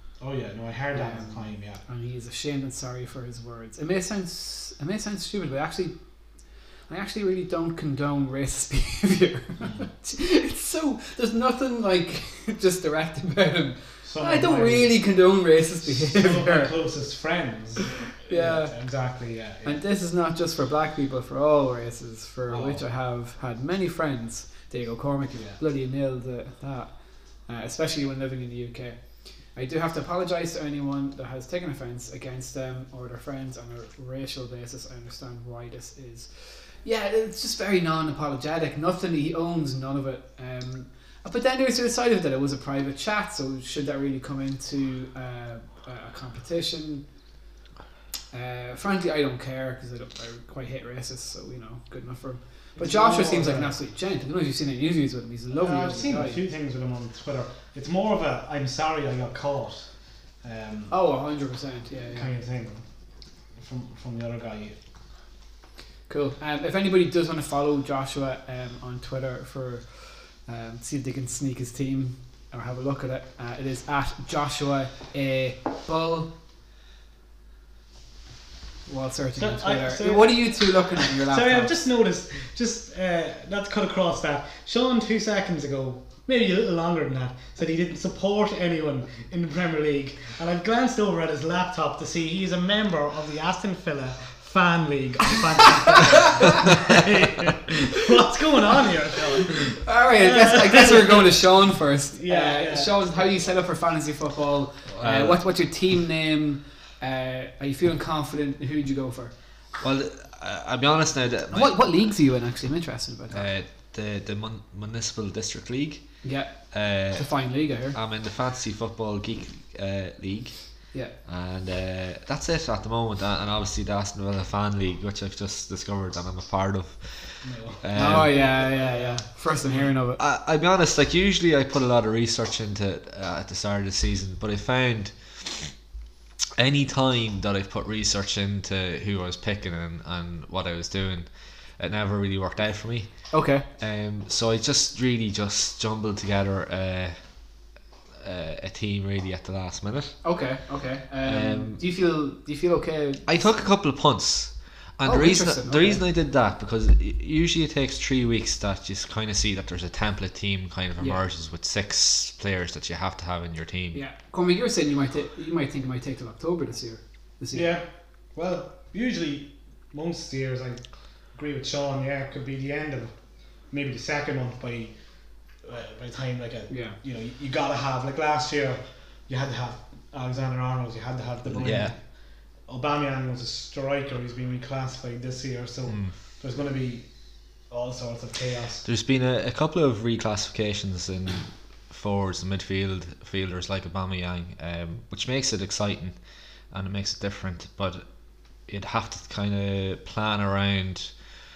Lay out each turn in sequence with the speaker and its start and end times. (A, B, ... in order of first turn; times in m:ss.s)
0:00.2-0:01.8 A
0:00.9-0:16.7 B
0:09.6-0:09.9 A
0:14.0-0:15.0 A
0:15.8-0:19.8 A
0:18.2-0:47.0 B
0:22.5-0:22.8 A
0:25.3-0:25.6 A
0:48.3-0:56.4 B
0:52.8-0:53.8 A
0:55.5-1:00.9 A
1:00.9-1:02.4 B
1:02.1-1:02.9 A
1:03.5-1:04.8 A
1:06.1-1:16.3 B
1:18.9-1:21.7 B
1:19.4-1:41.4 A
1:39.8-1:49.4 B
1:42.1-1:43.0 A
1:44.9-1:45.8 C
1:49.8-1:52.0 C
1:51.5-1:53.5 B
1:53.3-2:08.5 C
1:56.2-1:58.0 B
2:07.4-2:09.8 A
2:07.9-2:10.2 B
2:10.2-2:15.8 C
2:16.6-2:30.5 C
2:23.3-2:23.7 B
2:30.2-2:33.5 B
2:31.2-2:31.9 C
2:33.2-2:44.0 C
2:35.0-2:36.0 B
2:43.9-2:47.7 B
2:47.5-2:55.0 A
2:55.5-3:08.8 A
2:56.7-2:57.0 B
3:01.6-3:02.0 C
3:05.9-3:06.2 C
3:08.8-3:21.4 C